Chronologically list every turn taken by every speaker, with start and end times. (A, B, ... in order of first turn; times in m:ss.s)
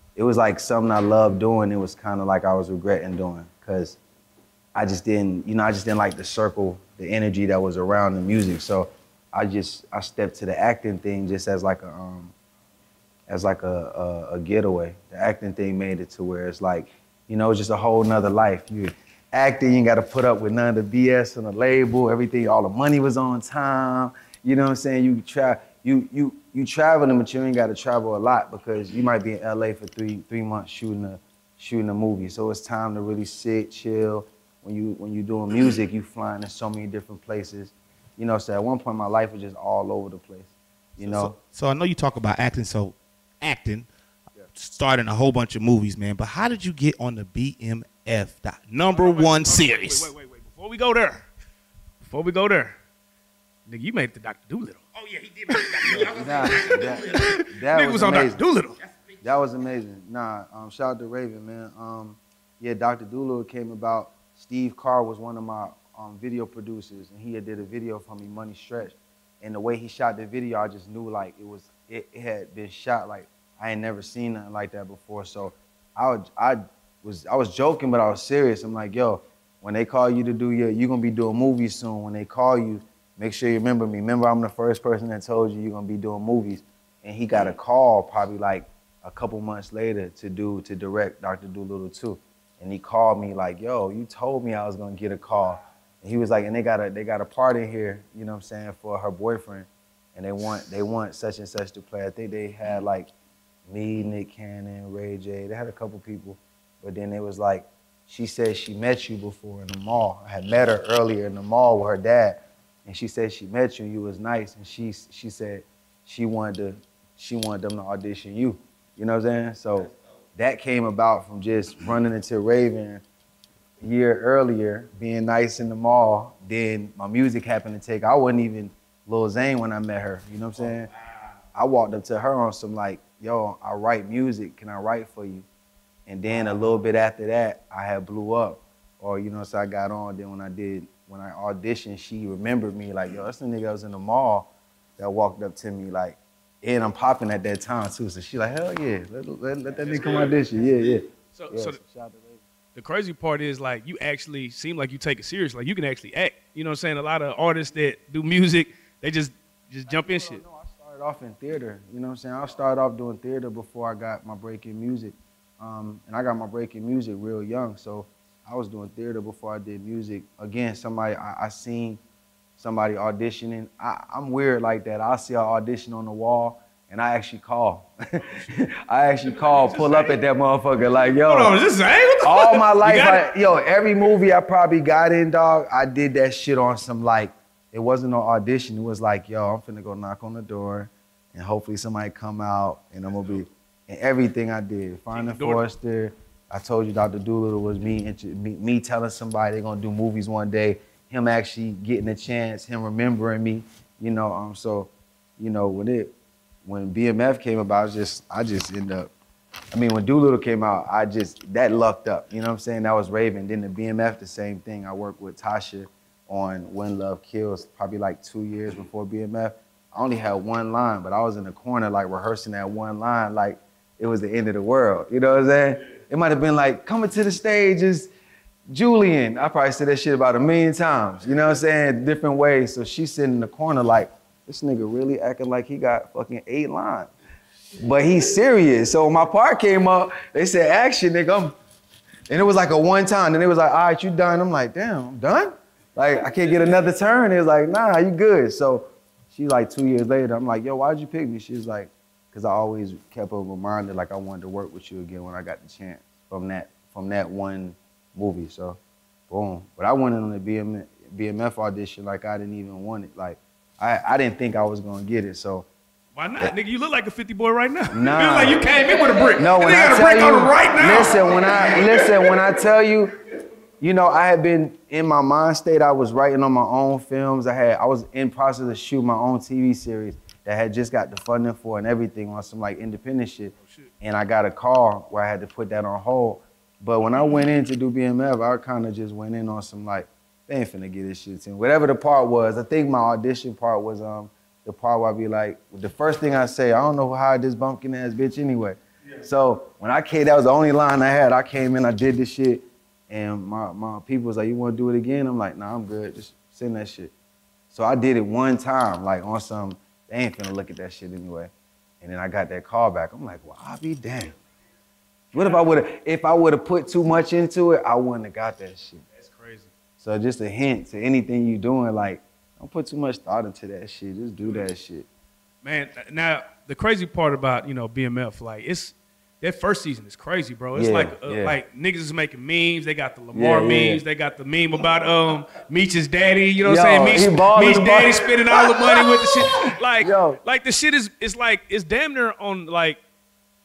0:00.2-0:04.0 A
0:04.8-0:12.3 A
0:13.3-0:41.4 A
0:41.0-0:43.9 B
0:44.5-0:50.1 B
0:48.8-0:51.2 C
0:52.0-0:52.8 C
0:53.7-0:54.8 C
0:55.1-0:57.0 B
0:55.5-0:58.8 C
0:56.0-0:58.4 A
0:59.2-1:43.1 A
1:43.7-2:03.0 A
2:03.8-2:10.9 A
2:11.6-2:15.5 A
2:16.1-2:32.4 A
2:29.8-2:30.5 C
2:31.3-2:31.8 C
2:32.8-2:40.4 C
2:39.9-2:52.0 A
2:52.6-3:01.6 A
2:59.5-3:00.2 C
3:01.2-3:03.2 C
3:02.2-3:26.1 A
3:15.1-3:15.6 C
3:26.6-3:29.1 A
3:29.7-3:48.1 A
3:48.7-3:57.1 A
3:57.8-4:01.6 A
4:02.3-4:18.8 A
4:19.3-4:25.7 A
4:26.2-4:32.4 C
4:27.9-4:28.6 A
4:29.4-4:33.1 A
4:33.8-5:07.1 A
4:43.6-4:43.9 C
5:07.7-5:14.4 A
5:15.3-5:15.6 C
5:15.3-5:19.0 A
5:19.2-5:19.7 C
5:20.0-5:25.1 A
5:25.6-5:43.0 C
5:30.8-5:31.6 A
5:33.3-5:34.0 A
5:36.6-5:40.4 A